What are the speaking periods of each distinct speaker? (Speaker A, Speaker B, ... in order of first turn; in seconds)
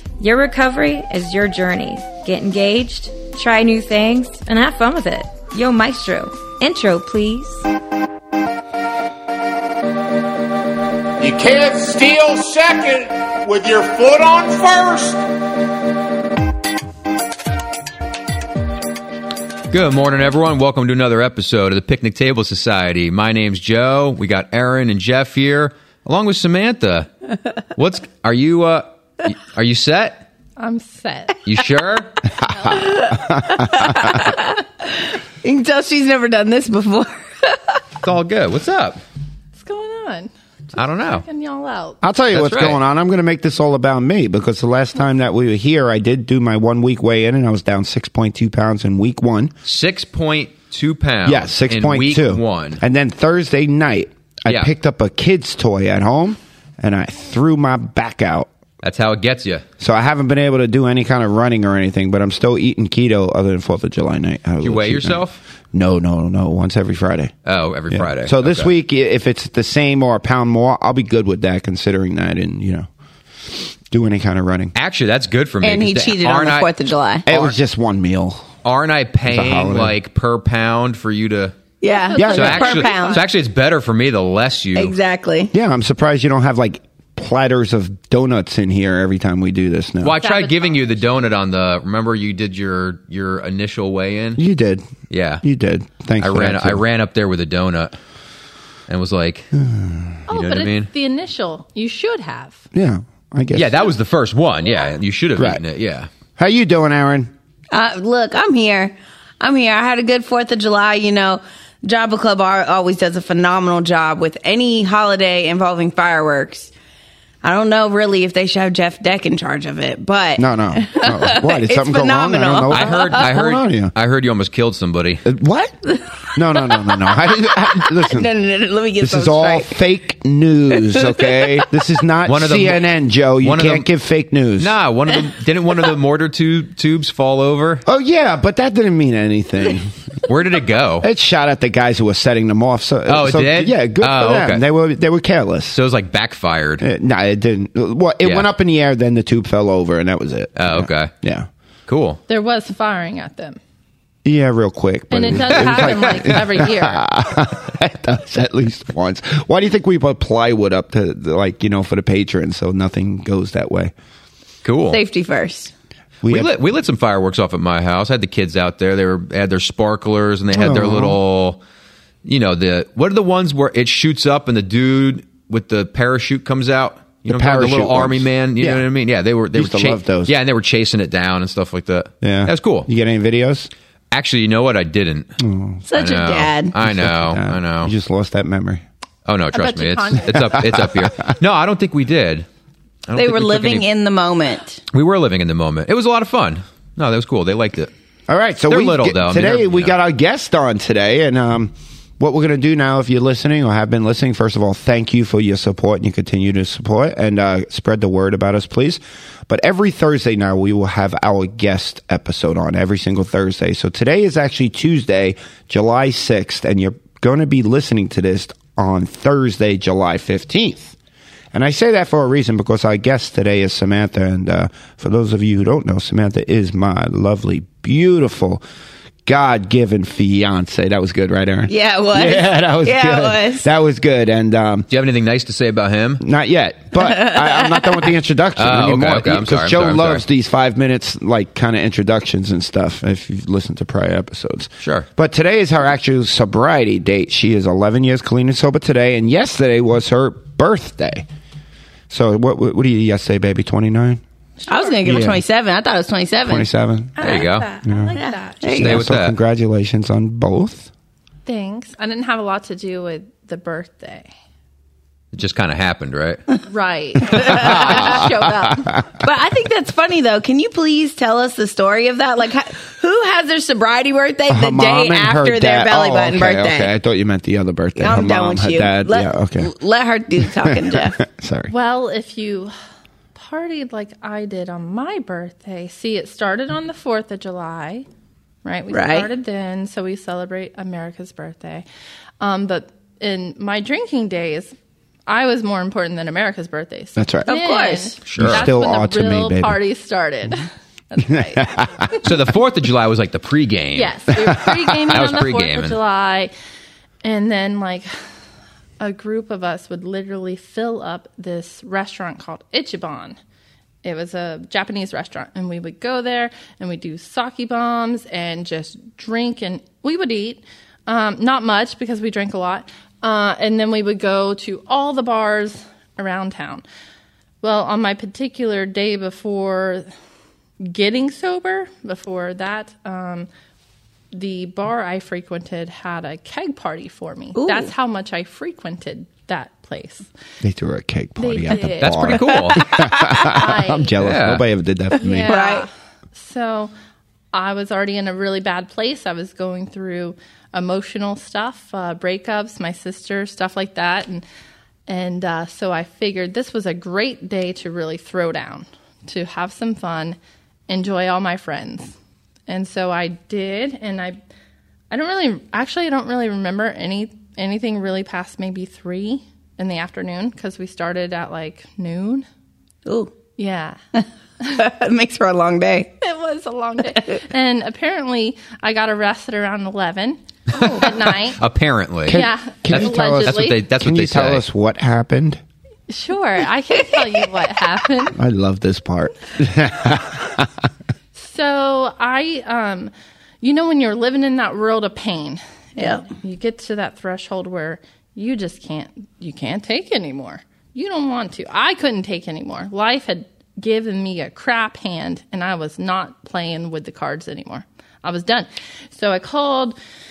Speaker A: 0.2-7.7
Speaker B: 11.2-15.2
Speaker C: 19.7-27.1, 27.8-30.2, 31.4-32.3, 38.0-39.0, 40.8-41.2, 42.3-42.8, 49.6-52.8, 58.8-59.6, 64.6-65.4, 67.5-68.7, 74.8-76.7, 77.3-77.5, 78.6-81.5, 82.3-85.0, 90.0-94.4, 95.1-95.4, 96.2-98.0, 98.9-99.5, 100.3-100.9, 103.5-106.1, 122.7-125.3, 132.3-132.9, 133.4-133.9, 134.6-137.8, 140.3-141.1, 143.1-144.6, 145.7-146.8, 148.2-148.5, 150.6-151.1, 151.9-152.2, 155.4-156.3, 164.6-165.0, 166.2-171.6, 172.2-182.9, 184.1-185.4, 185.9-187.9, 189.3-192.5, 193.1-193.9, 194.9-197.9, 198.7-199.9, 234.9-236.2, 238.6-240.2, 244.8-245.1, 257.2-257.7, 258.7-259.4, 265.3-266.4, 298.3-298.7, 302.2-306.0, 342.0-343.1, 344.2-344.6, 380.8-384.6
Speaker D: 30.6-31.4, 32.5-32.8, 39.5-42.0, 81.9-83.2, 90.2-91.0, 100.3-102.7, 152.3-153.6, 155.1-157.0, 189.5-190.9, 254.6-255.0, 257.2-258.7, 261.5-264.3, 266.7-268.9, 281.7-282.7, 283.3-288.1, 288.6-291.9, 292.4-294.7, 295.3-302.2, 304.0-306.5, 307.2-308.1, 309.0-313.4, 314.0-326.8, 327.6-330.1, 330.8-333.5, 334.3-340.3, 341.4-344.1, 345.2-346.9, 347.5-354.4, 355.1-360.4, 360.9-362.1, 362.7-364.4, 365.1-372.5, 373.6-374.0, 376.2-381.6, 382.3-383.8, 386.1-388.4, 391.4-410.0
Speaker E: 32.4-34.4, 42.0-49.5, 51.2-58.5, 59.8-67.3, 67.9-72.9, 73.5-74.7, 77.3-78.5, 79.3-80.0, 82.2-82.6, 85.5-90.2, 94.4-94.9, 95.4-96.8, 99.6-100.2, 102.7-103.9, 105.4-105.6, 106.4-107.3, 120.4-123.9, 125.2-128.3, 129.0-134.8, 137.9-140.2, 141.0-145.8, 146.8-151.5, 154.2-163.9, 166.2-166.5, 170.5-171.2, 177.3-178.8, 179.5-180.3, 182.2-183.7, 185.4-185.8, 186.8-188.8, 198.3-221.0, 221.5-228.6, 229.3-234.9, 236.2-251.3, 252.1-254.2, 255.1-255.4, 256.5-257.2, 257.9-260.9, 267.5-269.0, 274.5-279.7, 280.4-281.7, 297.2-297.5, 298.3-299.8, 301.3-302.1, 304.5-305.3, 340.6-345.6, 382.3-385.6, 388.4-390.9
Speaker F: 32.7-37.8, 75.6-77.3, 81.8-83.2, 84.8-85.5, 107.7-116.7, 117.4-123.3, 125.9-129.7, 130.8-131.7, 164.9-165.7, 185.9-186.8, 193.1-194.8, 231.7-233.7, 237.0-238.1, 254.7-256.7, 257.2-257.5, 258.1-259.1, 267.3-268.2, 269.2-276.9, 278.0-281.2, 288.9-289.3, 297.5-298.2, 337.6-337.9, 342.9-343.6, 345.4-345.9, 373.1-373.3, 374.1-376.1, 396.0-396.3